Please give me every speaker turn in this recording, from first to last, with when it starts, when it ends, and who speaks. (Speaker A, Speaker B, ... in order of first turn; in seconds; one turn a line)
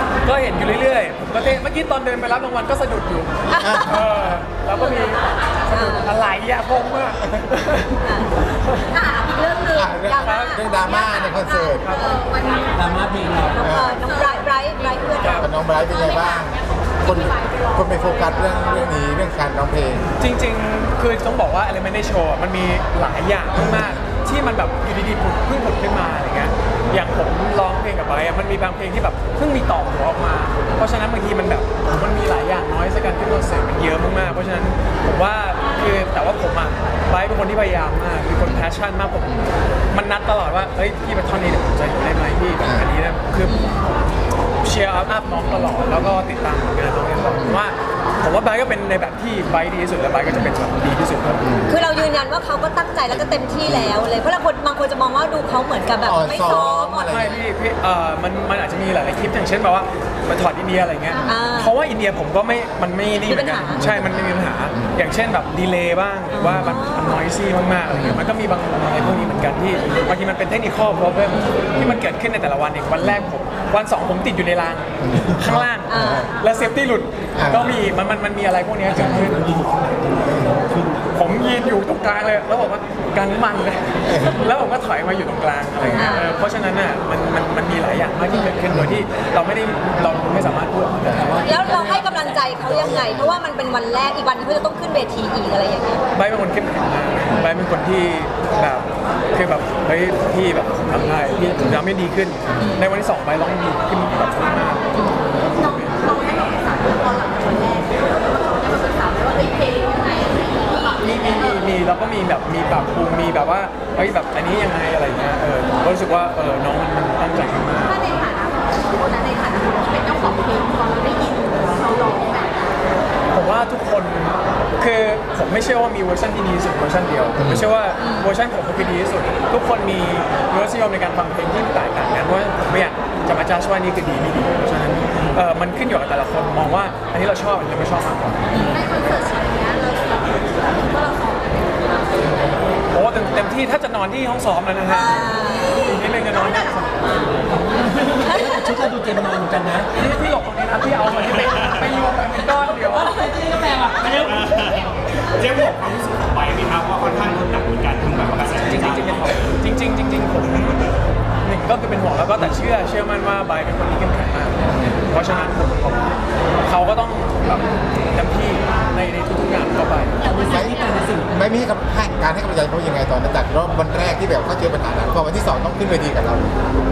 Speaker A: 0.2-8.9
Speaker B: 3.5-4.0
Speaker C: 3.6-4.0
Speaker B: 5.7-6.1
Speaker B: 8.0-8.3
Speaker D: 8.9-10.1
Speaker C: 9.7-12.2
Speaker B: 10.1-10.8
Speaker A: 10.2-10.7
Speaker D: 10.7-15.0
Speaker E: 12.7-13.7
Speaker B: 13.6-15.5
Speaker C: 13.6-14.0
Speaker A: 15.2-15.5
Speaker C: 15.2-20.1
Speaker D: 15.7-19.0
Speaker A: 20.2-43.9
Speaker C: 23.5-24.0
Speaker B: 43.5-43.9
Speaker A: 44.6-51.4
Speaker C: 47.3-47.6
Speaker C: 51.4-51.8
Speaker B: 51.7-57.2
Speaker C: 53.1-54.0
Speaker C: 56.0-57.4
Speaker A: 56.5-79.5
Speaker D: 61.1-61.5
Speaker B: 61.3-61.7
Speaker B: 63.2-63.8
Speaker C: 63.7-65.0
Speaker B: 66.3-67.2
Speaker C: 66.5-66.8
Speaker C: 67.9-68.2
Speaker C: 71.7-72.0
Speaker C: 75.0-76.3
Speaker B: 75.9-76.3
Speaker D: 76.4-76.7
Speaker C: 77.4-77.8
Speaker E: 78.9-81.1
Speaker C: 80.3-80.5
Speaker A: 81.1-92.4
Speaker C: 84.1-84.4
Speaker B: 85.9-86.3
Speaker C: 88.7-89.1
Speaker C: 91.1-91.5
Speaker E: 91.2-92.0
Speaker B: 91.5-96.0
Speaker C: 92.6-93.4
Speaker A: 96.1-106.0
Speaker B: 102.6-102.8
Speaker B: 105.0-105.3
Speaker D: 105.4-111.7
Speaker A: 111.0-118.0
Speaker D: 117.8-122.8
Speaker A: 123.3-138.5
Speaker C: 127.4-127.7
Speaker B: 128.0-128.3
Speaker B: 138.5-138.8
Speaker D: 138.7-142.4
Speaker A: 142.9-147.0
Speaker B: 144.9-145.8
Speaker D: 145.8-147.3
Speaker E: 147.5-149.9
Speaker B: 148.3-148.6
Speaker A: 149.9-153.2
Speaker F: 151.4-151.8
Speaker E: 152.9-154.5
Speaker F: 154.1-159.5
Speaker A: 158.6-166.1
Speaker C: 164.7-165.0
Speaker A: 166.6-170.2
Speaker E: 170.2-171.3
Speaker D: 170.2-171.1
Speaker C: 170.4-170.8
Speaker C: 171.3-176.5